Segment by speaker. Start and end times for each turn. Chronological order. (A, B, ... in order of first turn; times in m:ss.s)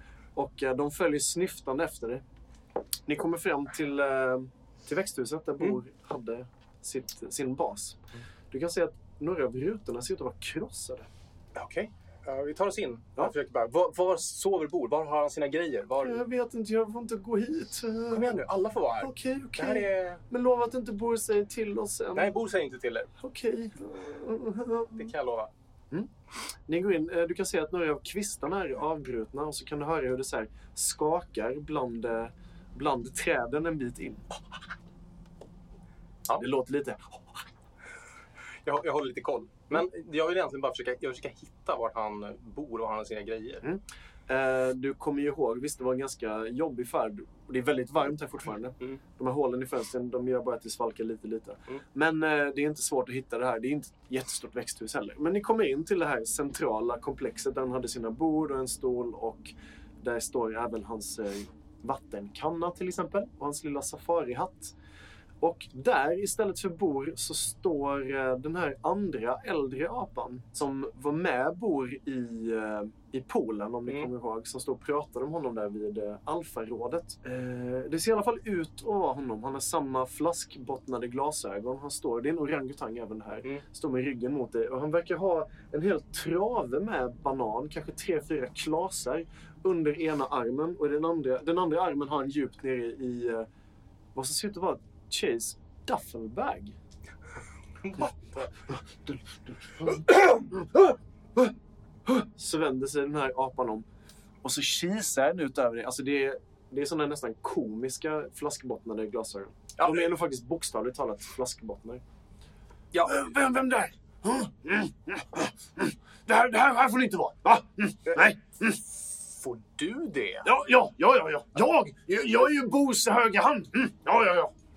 0:00.4-0:02.2 A
0:03.1-0:11.1 A
0:11.6-0:16.2 B
0:16.0-0:18.4 A
0:18.1-0:20.2 B
0:19.0-0:22.4 A
0:22.1-0:23.1 B
0:23.2-0:25.1 A
0:25.0-0:25.5 B
0:26.7-0:34.4 A
0:36.4-0:37.3 A
0:38.6-0:43.6 B
0:43.6-1:04.7 A
1:05.4-1:33.5 A
1:34.2-1:36.8 A
1:37.8-1:38.5 B
1:38.7-1:41.6 A
1:42.1-1:43.9 A
1:44.4-1:52.0 A
1:49.8-1:50.1 B
1:53.0-1:58.8 A
1:59.4-2:00.5 B
2:00.4-2:04.5 A